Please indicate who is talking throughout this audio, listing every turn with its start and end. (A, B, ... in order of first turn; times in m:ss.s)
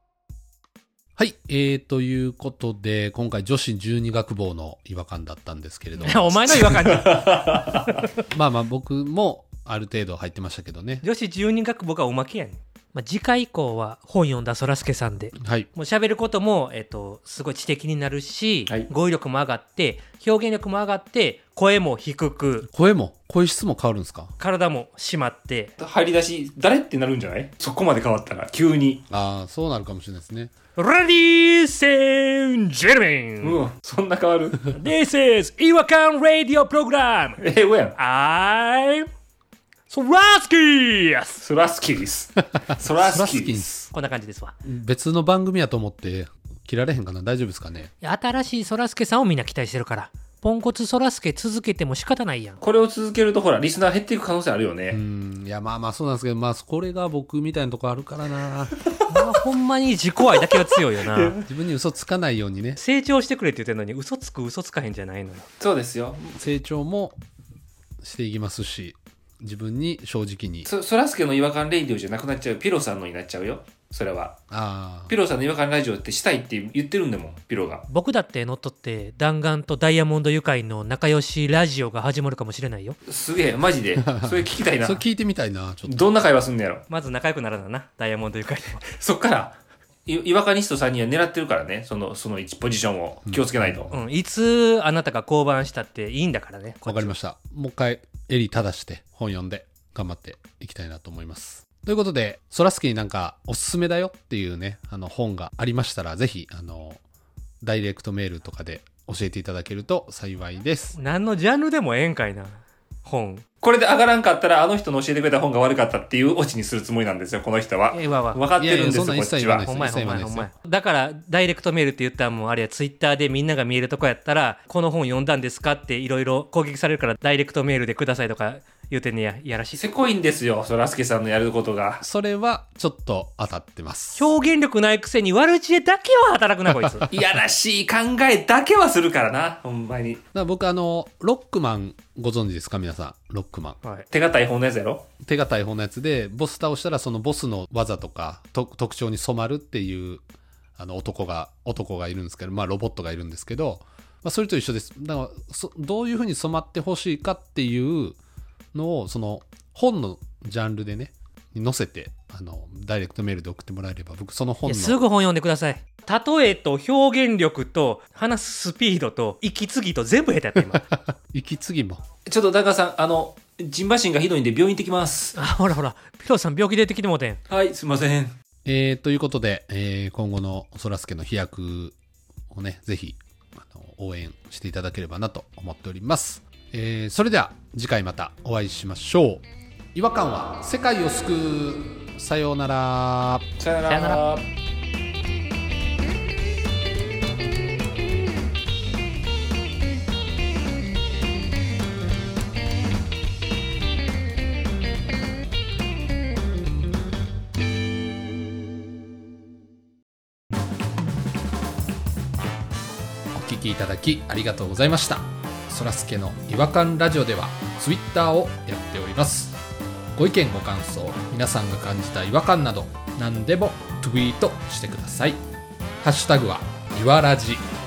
0:01.2-0:06.8 A
0:06.0-0:07.6 B
0:06.5-0:08.0 C
0:08.3-0:11.0 A
0:11.0-0:22.7 B
0:15.4-0:15.7 A
0:22.6-0:24.3 A
0:24.4-0:25.7 B
0:25.8-0:29.0 C
0:29.1-0:30.5 A
0:30.8-0:33.6 B
0:33.4-0:34.7 C
0:34.7-0:37.4 B
0:37.4-0:37.9 C
0:38.0-0:39.1 B
0:39.9-0:41.4 B
0:41.4-0:43.7 C
0:42.9-0:43.9 A
0:43.9-0:44.5 B
0:44.6-0:47.9 A
0:48.0-0:52.6 B
0:52.6-0:55.0 C
0:54.9-0:58.7 A
0:59.1-1:01.4 B
1:01.0-1:01.4 C
1:01.4-1:02.8 A
1:02.8-1:05.5 B
1:05.6-1:06.4 C
1:06.4-1:07.2 A
1:08.0-1:10.7 A
1:10.6-1:14.4 C
1:14.5-1:15.1 A
1:15.1-1:17.8 C
1:17.9-1:23.0 B
1:23.1-1:25.0 C
1:24.0-1:26.0 A
1:25.8-1:26.8 C
1:26.9-1:28.8 B
1:29.0-1:33.9 C
1:33.3-1:33.9 A
1:33.9-1:37.1 B
1:36.8-1:47.0 A
1:47.6-1:51.0 A
1:50.9-1:53.4 B
1:53.6-1:59.7 C
1:57.9-1:58.4 B
1:58.6-2:00.5 A
1:59.6-2:09.9 B
2:09.7-2:12.0 C
2:12.0-2:14.3 A
2:14.2-2:17.1 B
2:17.1-2:20.2 C
2:20.3-2:23.8 A
2:23.8-2:24.1 B
2:24.1-2:25.0 C
2:25.2-2:30.2 A
2:30.8-2:38.2 A
2:38.7-2:45.0 A
2:44.6-2:50.8 B
2:50.7-2:52.0 A
2:52.3-2:55.4 C
2:55.4-2:57.4 B
2:57.5-2:58.3 C
2:58.6-3:02.0 A
3:02.5-3:13.5 A
3:13.6-3:14.4 C
3:13.9-3:14.2 B
3:33.3-3:39.6 A
3:40.2-3:45.4 A
3:46.0-3:47.6 A